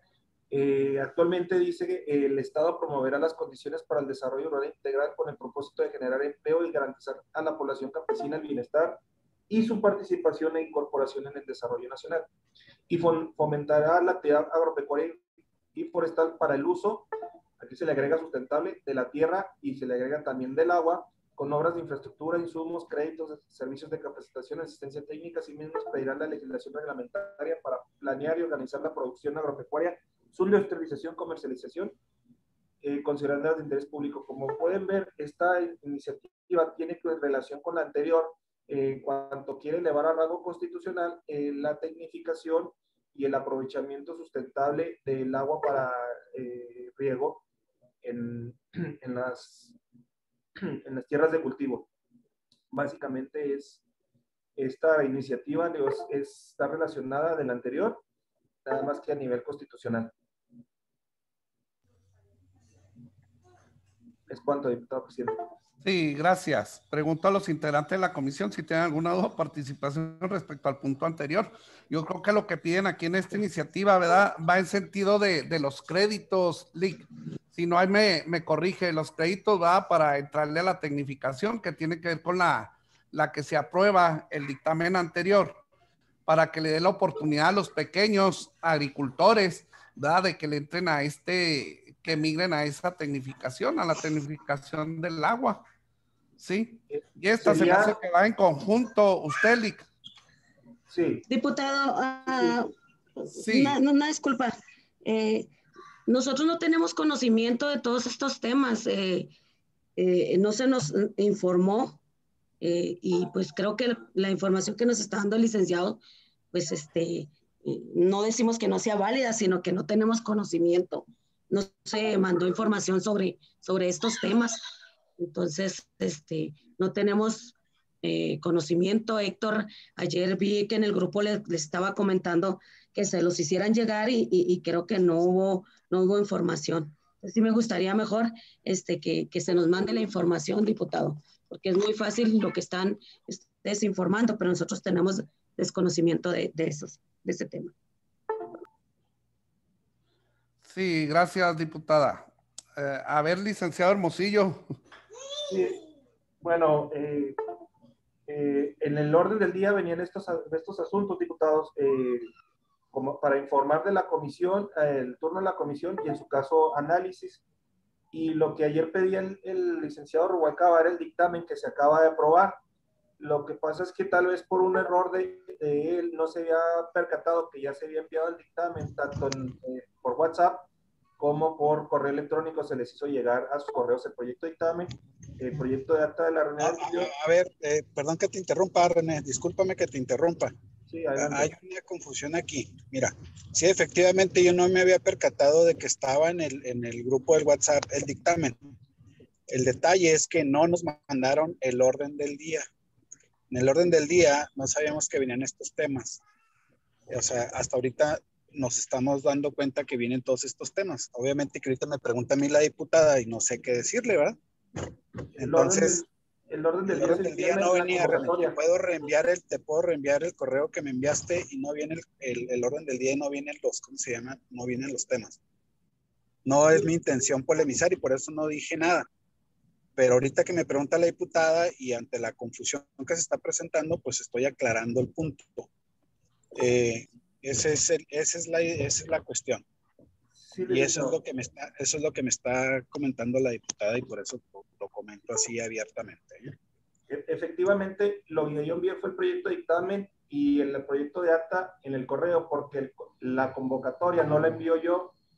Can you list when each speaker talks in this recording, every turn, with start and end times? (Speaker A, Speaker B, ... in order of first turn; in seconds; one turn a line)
Speaker A: 0.5-12.2
Speaker A: 12.9-15.2
Speaker A: 15.7-17.1
Speaker A: 17.6-31.9
Speaker A: 32.8-47.4
Speaker A: 48.0-49.8
Speaker A: 50.6-51.9
Speaker A: 52.7-53.8
Speaker A: 54.6-58.0
Speaker A: 58.6-60.1
Speaker A: 64.3-65.4
Speaker B: 65.8-85.6
Speaker B: 86.2-95.6
Speaker B: 96.4-99.9
Speaker A: 96.9-98.0
Speaker A: 100.9-101.2
Speaker C: 101.3-105.5
Speaker B: 103.4-103.8
Speaker C: 106.1-109.3
Speaker C: 110.0-112.0
Speaker C: 112.6-116.0
Speaker C: 116.5-124.6
Speaker C: 125.2-147.7
Speaker B: 150.6-154.7
Speaker A: 155.5-155.8
Speaker A: 156.4-157.4
Speaker A: 158.3-162.3
Speaker A: 162.9-167.4
Speaker A: 168.1-172.6
Speaker A: 173.2-180.7
Speaker A: 181.2-187.1
Speaker D: 186.6-190.5
Speaker A: 190.9-191.5
Speaker D: 191.2-198.6
Speaker D: 199.5-202.7
Speaker D: 203.5-206.2
Speaker D: 207.1-214.4
Speaker D: 215.4-216.0
Speaker A: 215.4-218.6
Speaker D: 216.9-225.4
Speaker D: 226.4-229.1
Speaker D: 229.9-235.7
Speaker D: 236.5-239.6
Speaker A: 240.4-241.2
Speaker D: 240.7-246.6
Speaker A: 247.1-255.1